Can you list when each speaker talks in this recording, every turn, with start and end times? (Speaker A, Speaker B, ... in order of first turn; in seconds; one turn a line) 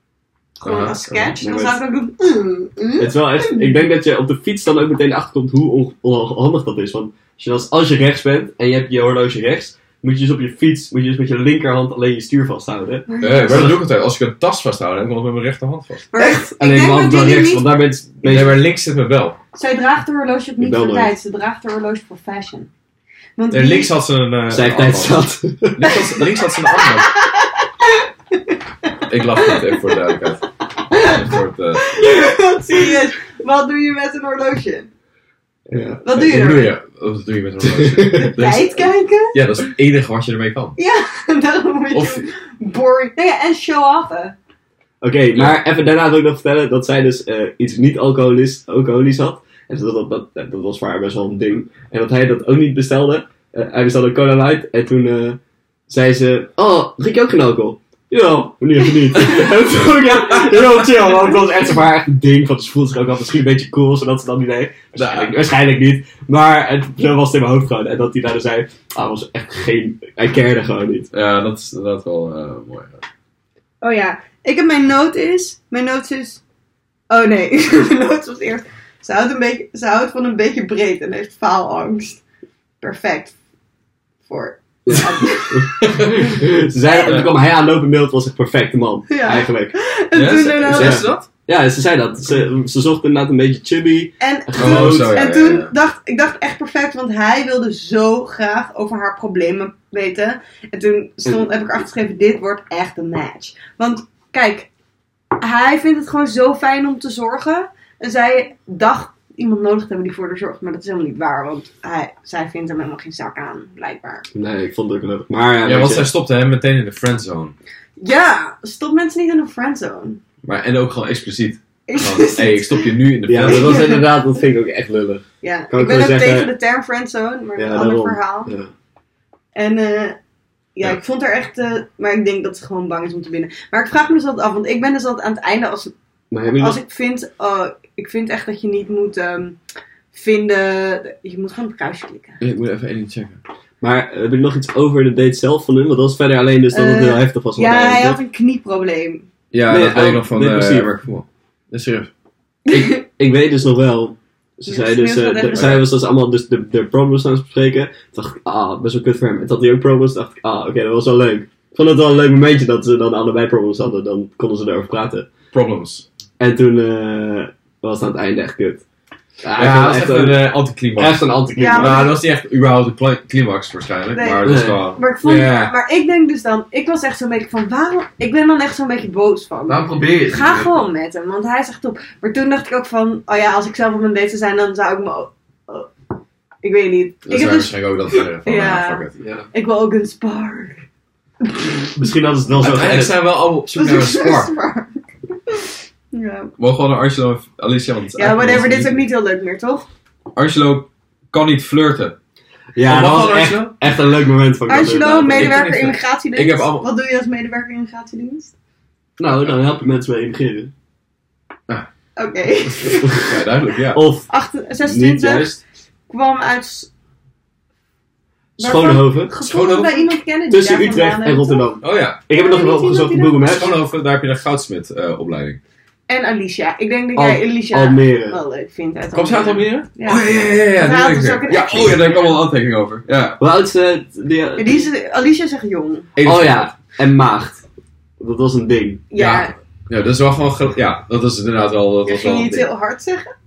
Speaker A: 0.6-3.8
Speaker B: 0.6-1.4
Speaker C: 1.4-1.8
Speaker C: 3.0-13.8
Speaker A: 13.1-13.8
Speaker B: 13.2-16.1
Speaker A: 16.1-17.7
Speaker C: 16.2-18.6
Speaker B: 18.2-19.4
Speaker A: 19.6-22.7
Speaker C: 20.6-21.1
Speaker A: 23.4-23.9
Speaker B: 23.5-27.1
Speaker C: 24.5-25.9
Speaker A: 26.8-29.9
Speaker B: 29.1-32.1
Speaker A: 30.9-34.9
Speaker C: 35.7-36.0
Speaker A: 36.0-36.8
Speaker B: 36.1-40.8
Speaker C: 37.8-38.3
Speaker A: 38.1-39.4
Speaker A: 40.8-44.4
Speaker B: 41.9-42.3
Speaker C: 45.0-71.1
Speaker B: 45.3-45.6
Speaker B: 60.5-60.9
Speaker B: 65.0-65.4
Speaker B: 71.1-73.0
Speaker A: 73.8-76.4
Speaker A: 77.1-82.2
Speaker A: 82.8-83.3
Speaker A: 84.3-85.9
Speaker C: 84.9-89.8
Speaker B: 85.8-86.5
Speaker A: 86.8-87.3
Speaker B: 87.0-87.3
Speaker A: 89.1-91.1
Speaker B: 90.1-91.3
Speaker C: 90.7-95.2
Speaker A: 94.2-104.7
Speaker B: 94.6-95.7
Speaker A: 105.4-114.3
Speaker C: 114.3-116.1
Speaker B: 115.6-117.5
Speaker A: 118.0-120.2
Speaker B: 120.4-124.0
Speaker A: 121.9-122.9
Speaker C: 123.3-126.5
Speaker A: 123.5-124.0
Speaker A: 125.4-128.5
Speaker C: 127.6-128.7
Speaker A: 129.6-130.2
Speaker A: 130.8-135.9
Speaker C: 136.3-136.8
Speaker A: 136.6-139.6
Speaker A: 140.1-142.4
Speaker B: 142.4-143.4
Speaker C: 143.8-148.2
Speaker A: 146.7-149.3
Speaker B: 149.5-152.1
Speaker C: 149.7-150.9
Speaker A: 152.7-153.0
Speaker C: 152.7-165.3
Speaker A: 154.7-155.8
Speaker B: 155.5-155.9
Speaker B: 165.5-166.1
Speaker C: 166.4-168.8
Speaker C: 169.4-172.1
Speaker B: 169.6-175.7
Speaker A: 171.6-172.1
Speaker A: 174.1-185.9
Speaker C: 174.4-174.8
Speaker C: 179.7-180.8
Speaker A: 186.6-190.8
Speaker B: 187.3-189.2
Speaker C: 189.2-189.5
Speaker C: 191.9-193.2
Speaker B: 192.6-194.5
Speaker A: 193.8-196.5
Speaker B: 196.6-199.1
Speaker A: 198.2-199.9
Speaker B: 200.3-202.2
Speaker C: 202.8-205.7
Speaker B: 202.8-203.8
Speaker A: 204.7-208.5
Speaker B: 205.2-206.9
Speaker C: 209.2-210.7
Speaker B: 209.2-209.6
Speaker A: 212.2-213.2
Speaker B: 212.7-214.0
Speaker C: 213.9-214.3
Speaker A: 214.3-215.5
Speaker C: 214.8-215.6
Speaker A: 216.1-216.9
Speaker C: 218.6-219.3
Speaker A: 218.6-221.7
Speaker B: 219.4-220.1
Speaker C: 220.5-223.7
Speaker B: 221.8-222.2
Speaker A: 222.3-223.7
Speaker B: 223.4-225.6
Speaker A: 226.1-232.4
Speaker C: 227.2-228.4
Speaker B: 229.1-233.4
Speaker C: 233.4-234.9
Speaker A: 234.6-236.1
Speaker B: 236.2-236.7
Speaker C: 236.2-237.7
Speaker C: 238.2-239.1
Speaker A: 239.1-239.5
Speaker B: 239.2-242.7
Speaker A: 242.1-243.3